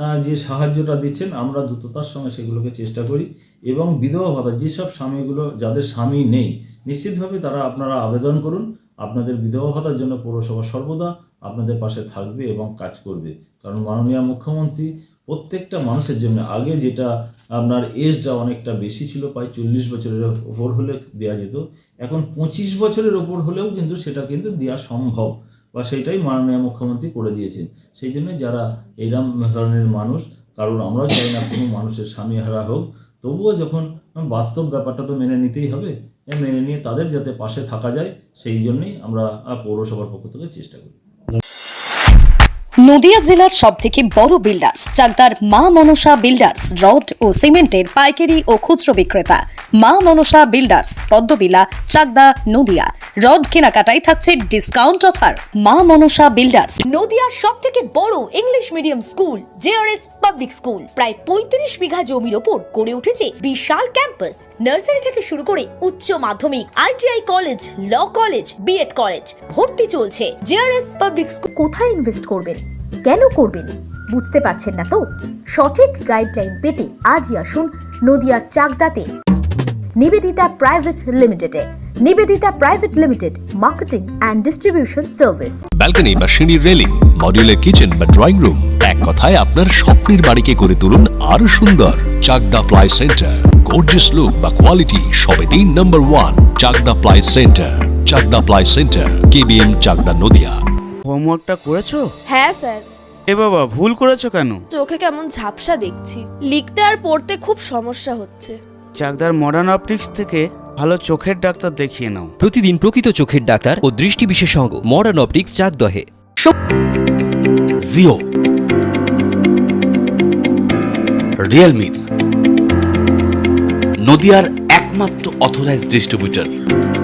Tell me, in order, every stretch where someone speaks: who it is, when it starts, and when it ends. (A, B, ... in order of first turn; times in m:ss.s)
0:00.2-0:41.0 A
0:42.8-0:56.8 B
0:56.8-1:11.5 C
1:11.6-1:15.0 D
1:15.5-1:19.1 D
1:20.0-1:25.6 D
1:25.8-1:40.6 E
1:41.1-1:42.0 F
1:42.3-1:42.9 G
1:43.3-1:44.6 F
1:44.7-1:48.6 G
1:49.0-1:52.3 F
1:52.4-1:56.1 H
1:57.9-1:58.2 I
2:01.4-2:02.0 I
2:04.1-2:06.5 I